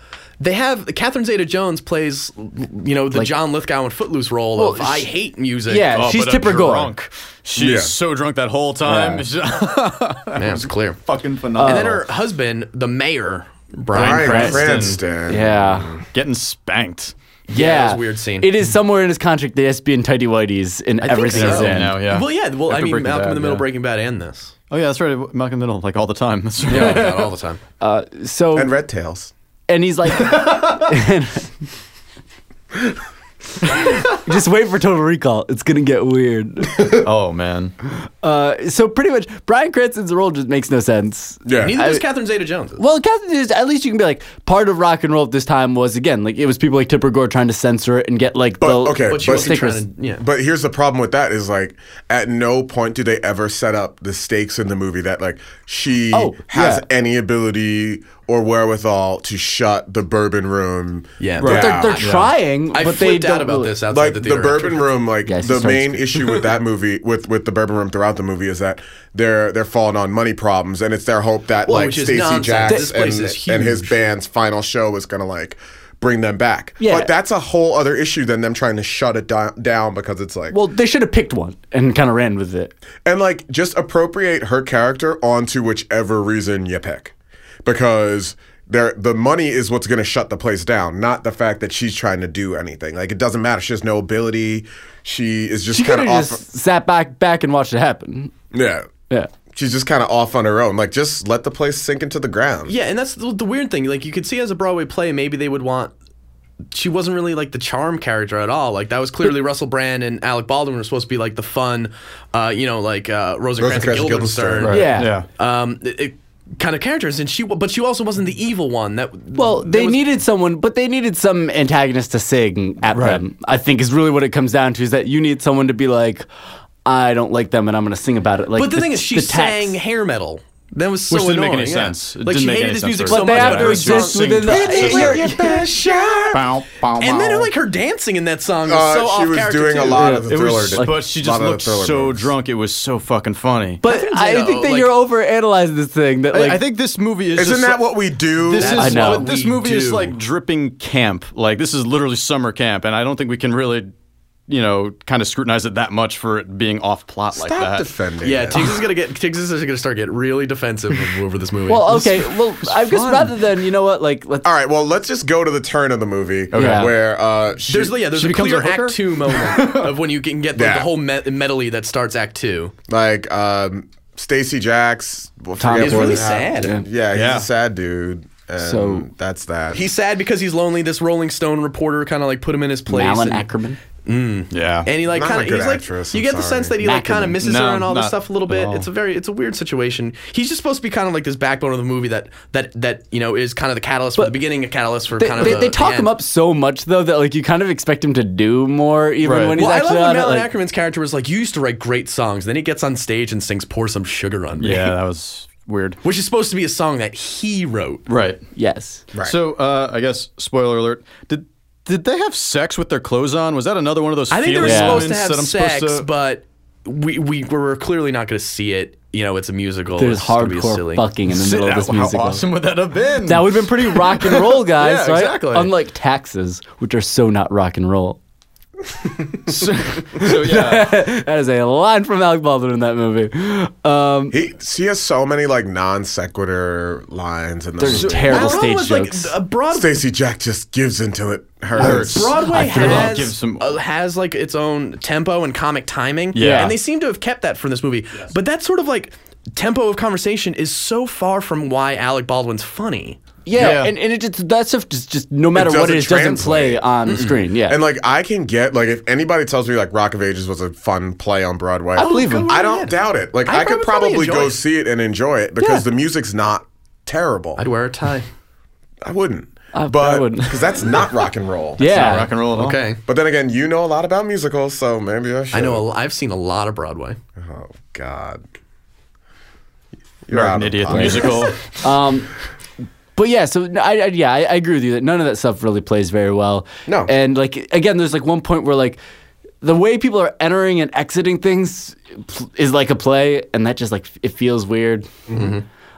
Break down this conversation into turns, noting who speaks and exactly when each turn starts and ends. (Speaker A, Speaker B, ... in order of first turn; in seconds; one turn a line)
Speaker A: 0.4-5.9
Speaker B: 4.5-5.1
Speaker B: 5.7-6.9
Speaker C: 5.9-12.0
Speaker D: 7.5-7.9
Speaker B: 8.8-9.2
Speaker A: 10.3-11.0
Speaker B: 11.6-12.0
Speaker A: 11.6-14.8
Speaker C: 13.9-15.0
Speaker D: 13.9-16.0
Speaker B: 15.3-15.9
Speaker C: 16.1-17.1
Speaker A: 17.5-18.5
Speaker B: 17.5-22.0
Speaker A: 21.0-24.5
Speaker C: 21.3-23.6
Speaker C: 24.7-27.3
Speaker A: 26.6-27.6
Speaker B: 27.8-28.7
Speaker D: 28.5-29.3
Speaker B: 29.7-31.5
Speaker B: 33.6-37.0
Speaker C: 36.9-37.7
Speaker B: 38.2-42.0
Speaker D: 41.4-41.8
Speaker A: 41.6-42.8
Speaker B: 42.8-49.8
Speaker D: 48.6-49.6
Speaker A: 49.1-50.2
Speaker D: 50.2-62.1
Speaker B: 56.1-56.8
Speaker A: 61.2-62.1
Speaker C: 61.4-62.3
Speaker B: 61.4-63.7
Speaker A: 62.7-64.8
Speaker D: 63.9-80.6
Speaker B: 65.2-66.1
Speaker A: 71.7-73.9
Speaker B: 76.8-77.1
Speaker B: 80.5-82.7
Speaker D: 83.0-87.1
Speaker D: 87.6-96.4
Speaker B: 95.7-98.3
Speaker D: 98.5-98.9
Speaker D: 99.5-102.7
Speaker A: 102.7-105.9
Speaker A: 106.7-120.1
Speaker D: 113.6-114.8
Speaker C: 114.6-115.2
Speaker B: 114.7-115.2
Speaker B: 119.3-126.2
Speaker C: 122.9-123.2
Speaker B: 126.8-129.8
Speaker A: 128.5-135.3
Speaker C: 131.1-135.3
Speaker B: 133.1-135.5
Speaker D: 134.5-136.5
Speaker C: 136.3-137.5
Speaker A: 136.9-140.2
Speaker D: 138.7-142.3
Speaker B: 139.9-141.0
Speaker C: 140.2-143.8
Speaker B: 143.8-146.6
Speaker A: 143.8-144.9
Speaker C: 146.3-153.9
Speaker D: 147.3-148.9
Speaker A: 148.5-150.1
Speaker B: 148.7-149.3
Speaker C: 154.5-157.9
Speaker D: 157.3-158.8
Speaker A: 158.2-163.2
Speaker B: 161.7-164.5
Speaker D: 164.4-168.0
Speaker C: 166.5-166.9
Speaker B: 166.5-166.9
Speaker A: 167.7-172.7
Speaker C: 168.1-169.9
Speaker D: 170.5-170.9
Speaker D: 172.9-179.8
Speaker B: 175.6-176.8
Speaker A: 175.8-176.7
Speaker C: 177.1-177.5
Speaker B: 178.6-179.1
Speaker A: 179.7-183.5
Speaker B: 182.9-183.8
Speaker A: 184.0-196.1
Speaker C: 184.5-184.9
Speaker D: 185.1-186.8
Speaker B: 186.8-187.4
Speaker C: 187.4-188.9
Speaker B: 195.2-200.5
Speaker C: 199.2-199.6
Speaker A: 199.5-204.9
Speaker C: 204.6-206.0
Speaker A: 206.0-208.1
Speaker C: 208.1-208.4
Speaker B: 208.5-209.0
Speaker C: 209.2-216.1
Speaker A: 214.3-221.1
Speaker B: 214.6-215.1
Speaker B: 220.0-222.4
Speaker C: 221.3-225.7
Speaker B: 223.2-228.2
Speaker C: 229.5-231.0
Speaker B: 230.1-234.4
Speaker D: 234.3-238.7
Speaker B: 237.8-239.3
Speaker A: 238.2-240.0
Speaker D: 239.7-242.4
Speaker C: 241.8-243.8
Speaker A: 241.8-253.7
Speaker B: 242.5-243.2
Speaker C: 246.3-246.8
Speaker B: 246.3-246.8
Speaker B: 253.4-257.8
Speaker C: 253.5-253.9
Speaker D: 255.5-256.8
Speaker A: 257.1-257.4
Speaker D: 257.6-267.6
Speaker B: 261.9-262.5
Speaker A: 261.9-264.6
Speaker B: 265.6-265.9
Speaker A: 267.6-268.3
Speaker D: 269.0-272.2
Speaker B: 269.7-271.1
Speaker B: 271.8-272.3
Speaker C: 271.8-272.8
Speaker A: 272.5-273.0
Speaker D: 273.0-275.8
Speaker A: 275.5-277.2
Speaker D: 277.4-278.4
Speaker D: 280.2-281.5
Speaker C: 280.3-281.7
Speaker B: 280.9-282.3
Speaker B: 283.1-289.0
Speaker B: 289.6-295.1
Speaker A: 295.3-295.6